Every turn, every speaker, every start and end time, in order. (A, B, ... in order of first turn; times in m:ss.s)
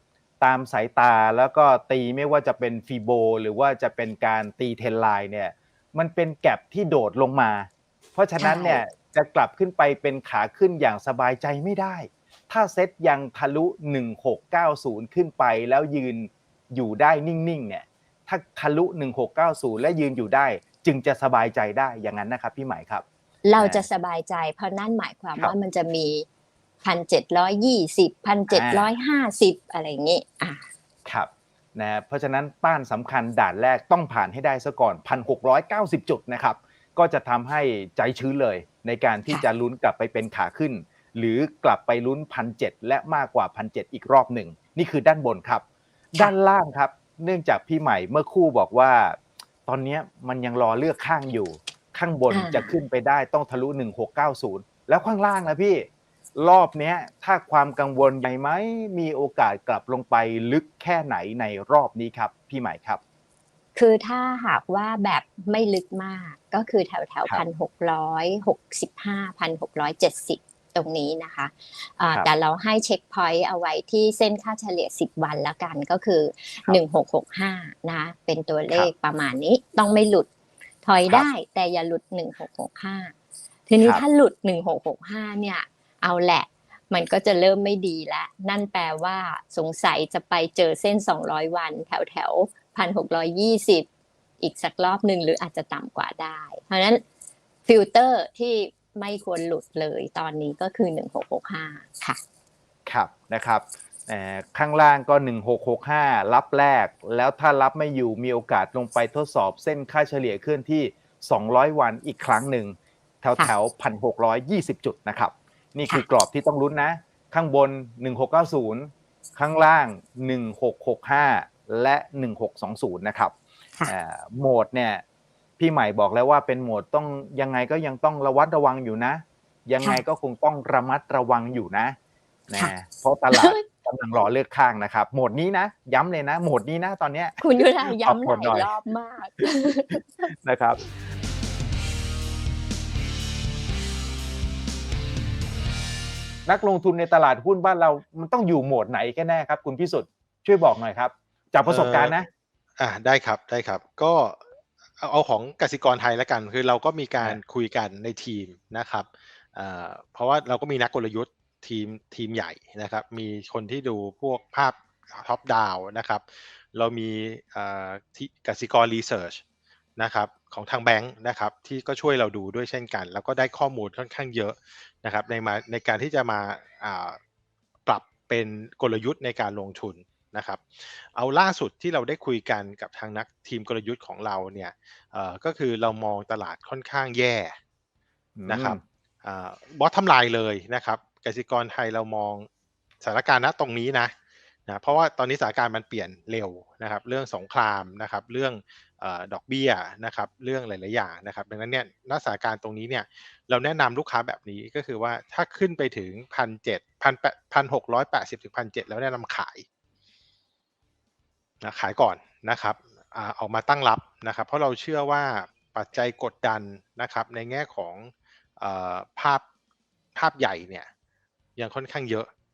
0:00.4-0:23.0 A
0:08.4-0:08.8 B
0:23.4-0:26.2 B
0:23.6-0:23.8 A
0:26.8-0:30.7 B
0:28.5-0:28.9 A
0:31.0-1:03.0 A
0:52.3-0:52.7 B
1:03.7-1:20.3 B
1:20.8-1:23.1 B
1:23.7-1:33.9 B
1:34.4-1:37.0 B
1:37.6-1:42.2 B
1:42.8-2:03.3 A
2:03.9-2:05.0 A
2:05.6-2:12.0 A
2:12.5-2:17.4 A
2:13.3-2:13.6 B
2:17.4-2:20.3 B
2:18.0-2:18.7 A
2:20.3-2:20.8 A
2:26.4-2:32.3 A
2:31.6-2:32.1 C
2:32.8-2:34.4 C
2:35.0-2:49.4 C
2:50.0-2:57.2 C
2:57.8-3:07.6 C
3:08.4-3:08.8 A
3:08.5-3:12.5 C
3:13.0-3:14.1 C
3:14.7-3:29.6 C
3:31.6-3:39.4 C
3:40.1-3:40.9 C
3:41.6-3:42.3 C